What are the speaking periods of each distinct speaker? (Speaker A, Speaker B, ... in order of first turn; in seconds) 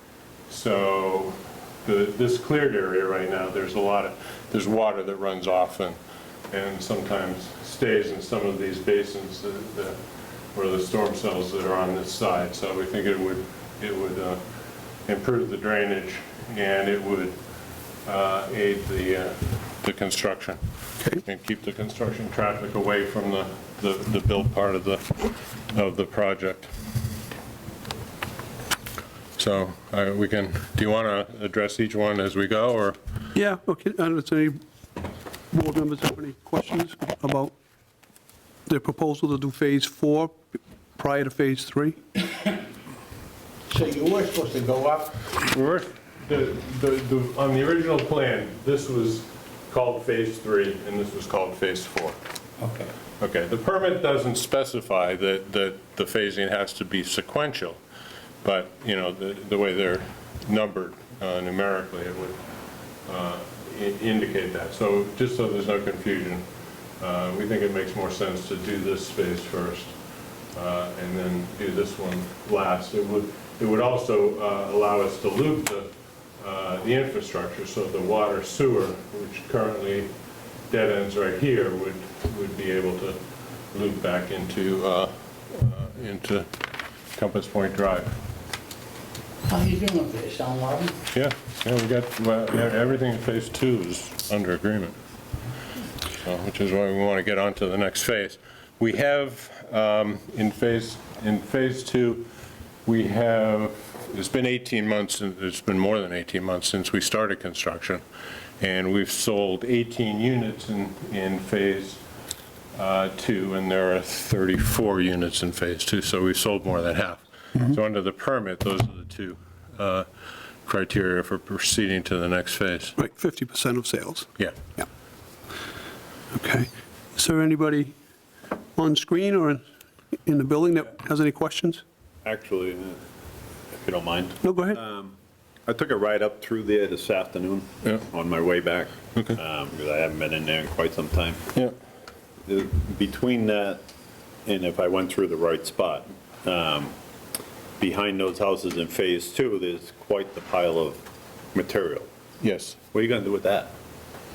Speaker A: 0.5-6.0, 6.5-10.0, 10.5-14.4, 15.1-17.4, 18.0-26.7, 29.4-33.0, 45.3-52.2, 53.2-57.8, 58.4-62.4, 63.0-66.4, 67.0-69.9, 70.5-75.9, 76.4-80.1, 80.7-83.2, 83.7-86.5, 87.1-88.1, 91.1-95.0, 96.2-102.2, 102.8-108.0, 108.6-112.0, 112.8-120.1, 120.6-123.0, 152.4-152.8
Speaker B: 33.3-34.5, 35.5-37.5, 38.7-40.3, 41.0-42.0, 123.0-124.8, 126.3-127.9, 128.8-129.6, 130.2-131.8, 134.4-134.8
Speaker C: 43.7-45.1, 89.5-90.9
Speaker D: 132.2-133.0, 133.7-135.1, 135.7-141.5, 142.5-143.8, 144.5-146.9, 147.8-151.0, 151.5-152.1, 152.9-153.7